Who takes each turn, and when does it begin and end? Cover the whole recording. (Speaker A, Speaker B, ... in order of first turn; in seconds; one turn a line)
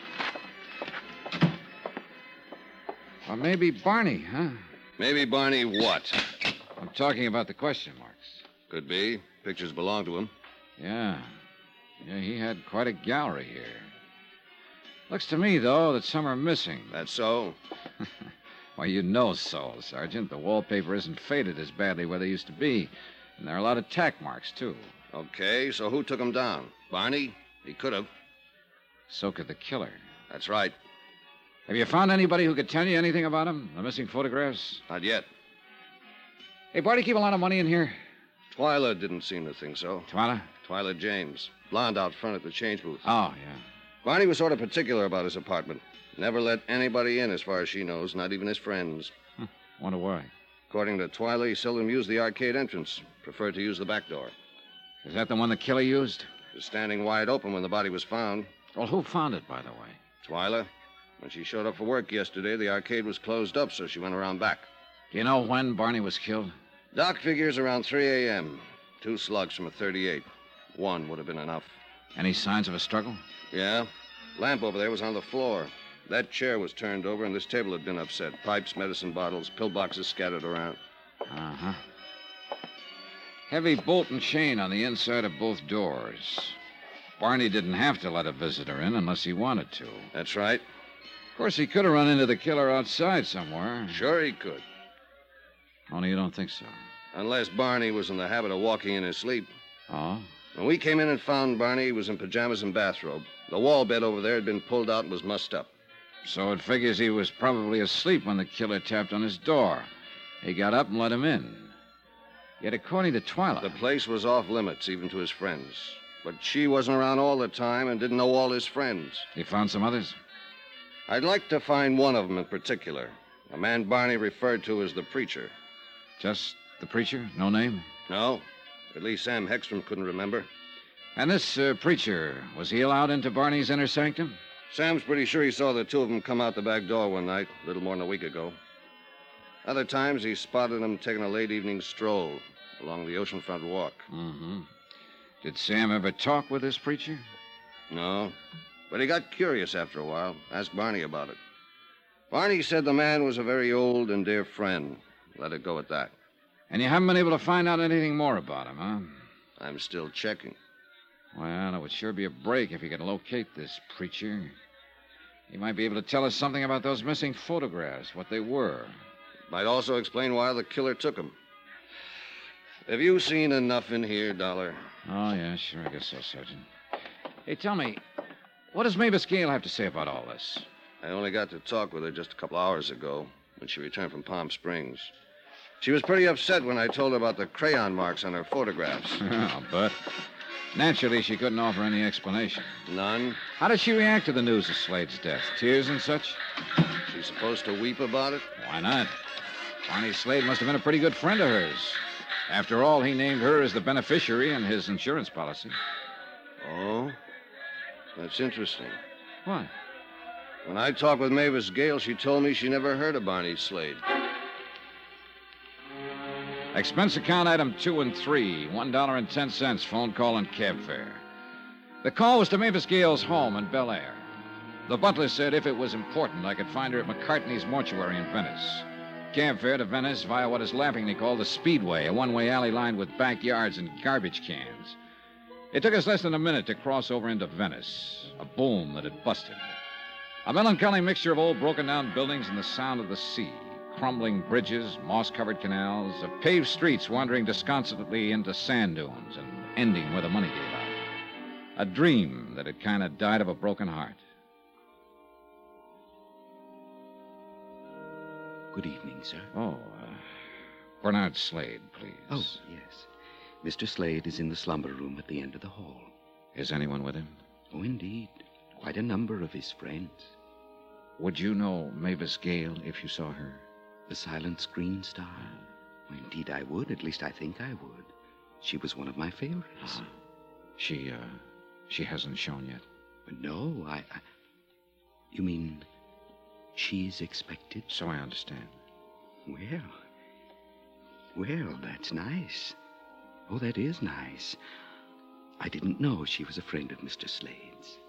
Speaker A: 3.2-4.6
Speaker B: 5.0-6.2
Speaker A: 6.8-8.4
Speaker B: 8.7-10.3
Speaker A: 10.8-11.3
Speaker A: 12.0-13.9
Speaker A: 15.1-17.0
Speaker B: 16.9-17.6
Speaker A: 18.8-24.9
Speaker B: 25.1-28.1
Speaker A: 29.1-30.0
Speaker B: 30.3-30.7
Speaker A: 31.7-34.8
Speaker B: 34.9-35.3
Speaker A: 36.7-38.0
Speaker B: 38.5-40.1
Speaker A: 40.1-40.5
Speaker B: 40.6-43.0
Speaker A: 43.0-43.6
Speaker B: 44.0-49.1
Speaker A: 49.8-50.3
Speaker B: 50.7-54.3
Speaker A: 55.0-56.3
Speaker B: 56.5-58.5
Speaker A: 58.7-60.0
Speaker B: 60.2-60.7
Speaker B: 61.2-64.7
Speaker A: 65.1-66.5
Speaker B: 66.9-71.8
Speaker A: 72.1-73.2
Speaker B: 73.5-80.8
Speaker A: 81.3-81.8
Speaker A: 83.5-86.5
Speaker A: 87.2-90.1
Speaker B: 90.1-90.6
Speaker A: 91.3-94.0
Speaker B: 93.9-94.6
Speaker A: 95.9-96.8
Speaker B: 97.1-99.5
Speaker A: 99.9-100.3
Speaker B: 100.5-105.7
Speaker A: 106.2-109.9
Speaker A: 110.4-111.7
Speaker A: 112.6-113.8
Speaker B: 113.6-119.3
Speaker A: 119.3-120.2
Speaker B: 121.1-125.5
Speaker A: 126.2-127.8
Speaker B: 128.1-130.5
Speaker A: 131.2-134.4
Speaker B: 134.7-138.6
Speaker B: 139.6-144.1
Speaker A: 144.1-144.7
Speaker A: 145.4-147.2
Speaker B: 147.9-148.3
Speaker B: 148.9-151.4
Speaker B: 152.3-156.1
Speaker A: 156.7-159.2
Speaker B: 159.6-160.6
Speaker A: 161.3-164.5
Speaker A: 165.5-168.9
Speaker B: 169.5-171.3
Speaker B: 172.8-174.8
Speaker A: 175.1-176.6
Speaker A: 177.4-178.0
Speaker A: 178.7-180.6
Speaker B: 181.0-185.1
Speaker B: 185.8-189.2
Speaker A: 189.1-190.0
Speaker A: 190.7-192.7
Speaker B: 192.8-193.4
Speaker A: 193.6-196.4
Speaker B: 197.1-198.4
Speaker A: 198.6-199.1
Speaker A: 199.9-205.8
Speaker B: 206.6-207.2
Speaker B: 208.2-209.0
Speaker A: 209.4-209.7
Speaker B: 210.6-214.0
Speaker A: 216.7-221.2
Speaker A: 222.0-224.3
Speaker A: 224.8-235.0
Speaker A: 235.7-239.7
Speaker A: 240.4-251.0
Speaker A: 251.8-254.2
Speaker C: 258.7-259.5
Speaker A: 259.5-260.2
Speaker A: 261.0-262.6
Speaker C: 262.3-263.1
Speaker C: 263.6-266.1
Speaker A: 266.5-267.4
Speaker C: 267.7-270.3
Speaker A: 271.2-273.6
Speaker C: 274.1-275.6
Speaker C: 276.1-278.1
Speaker C: 278.6-280.0
Speaker A: 280.8-282.8
Speaker C: 283.2-284.2
Speaker C: 285.3-285.9
Speaker C: 286.7-287.9
Speaker A: 287.9-288.7
Speaker C: 289.4-289.9
Speaker C: 291.3-292.8
Speaker C: 293.5-294.6
Speaker C: 295.6-298.0